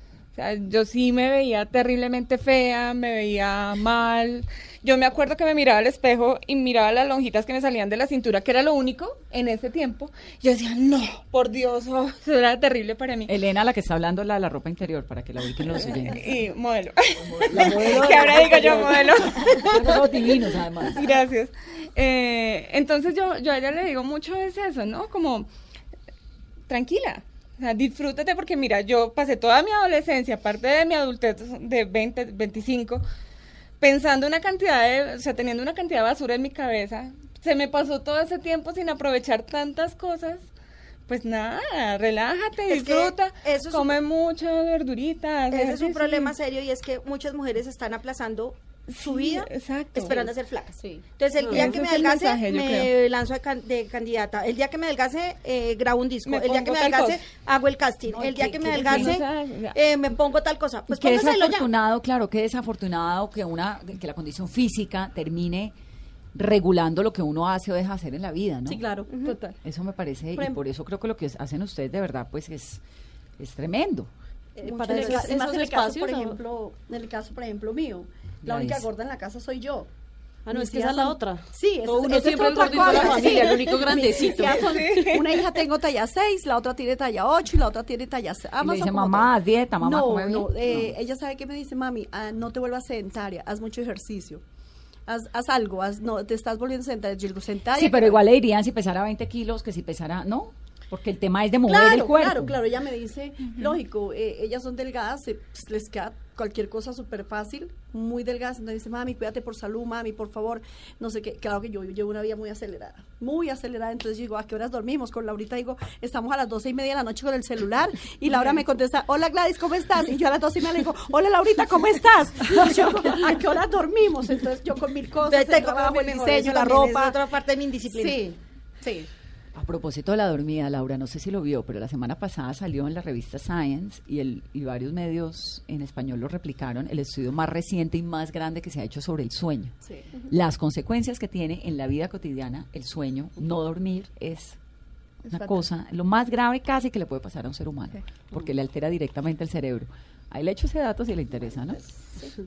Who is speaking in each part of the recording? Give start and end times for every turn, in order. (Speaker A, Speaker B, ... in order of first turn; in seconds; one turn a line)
Speaker A: 0.3-13.3
Speaker B: 13.3-16.3
Speaker A: 16.0-25.5
Speaker B: 17.2-21.1
Speaker A: 26.7-33.0
Speaker A: 33.8-40.5
Speaker A: 41.1-46.3
Speaker C: 42.7-44.0
Speaker C: 45.5-61.7
Speaker A: 48.9-50.3
Speaker D: 50.8-51.0
Speaker E: 51.4-51.8
Speaker A: 51.5-52.9
Speaker A: 56.3-57.2
Speaker B: 58.1-59.2
Speaker A: 58.7-59.8
Speaker B: 60.9-65.7
Speaker B: 66.3-68.8
Speaker D: 68.7-69.1
Speaker C: 69.1-69.4
Speaker A: 69.2-69.6
Speaker B: 69.6-72.8
Speaker D: 70.3-70.6
Speaker B: 73.4-74.1
Speaker D: 74.6-79.9
Speaker E: 74.6-76.4
Speaker B: 78.5-78.8
Speaker E: 80.5-85.2
Speaker D: 80.5-94.4
Speaker A: 84.5-85.3
Speaker B: 88.6-90.9
Speaker D: 95.1-98.2
Speaker B: 97.8-102.6
Speaker D: 101.7-127.2
Speaker C: 125.3-128.2
Speaker D: 127.9-129.1
Speaker B: 129.6-139.8
Speaker D: 139.8-140.1
Speaker B: 140.3-144.6
Speaker B: 145.3-151.8